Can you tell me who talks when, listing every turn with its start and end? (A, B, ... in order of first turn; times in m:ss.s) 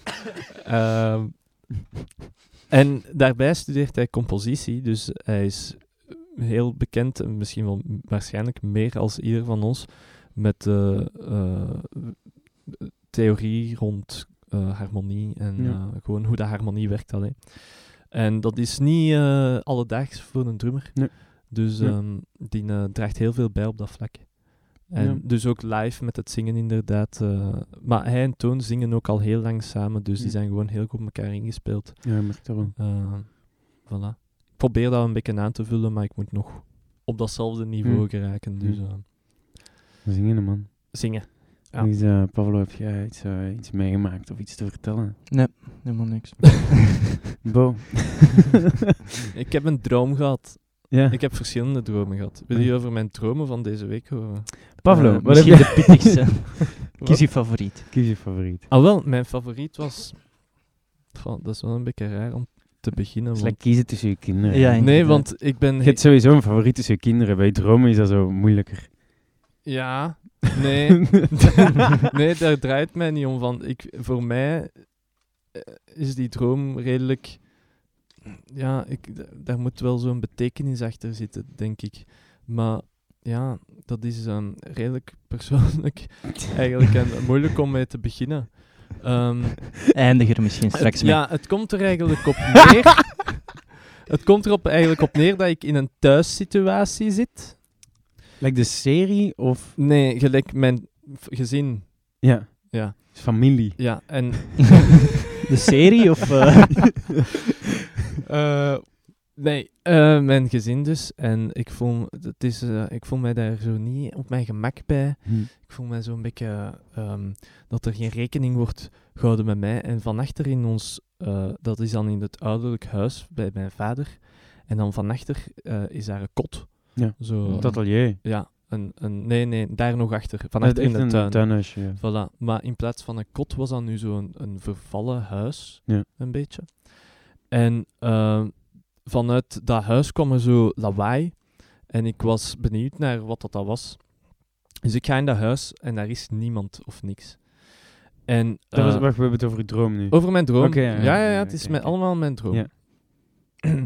0:00.6-0:01.8 A
0:02.7-0:39.0 A
0:15.6-0:15.8 B
0:21.0-0:22.0 B
0:25.0-0:25.2 B
0:32.0-0:32.8 B
0:37.8-0:38.8 B
0:40.0-0:45.2 B
0:40.9-0:41.9 A
0:45.3-0:46.9 C
0:47.4-0:48.5 B
0:49.3-0:55.0 A
0:50.9-0:51.2 B
0:54.8-0:56.3 B
0:54.9-0:57.8 C
0:57.0-0:58.0 A
0:57.6-0:58.7 B
0:58.7-1:06.0 A
1:03.3-1:08.9 B
1:04.5-1:05.5 C
1:09.6-1:17.9 A
1:18.5-1:30.0 A
1:29.9-1:31.7 C
1:30.9-1:33.5 A
1:34.1-1:37.6 A
1:38.4-1:39.8 B
1:39.8-1:45.1 A
1:42.2-1:44.4 B
1:45.5-1:47.1 C
1:48.2-2:33.4 A
2:07.0-2:08.2 B
2:07.4-2:07.8 C
2:10.6-2:12.0 B
2:28.7-2:32.7 B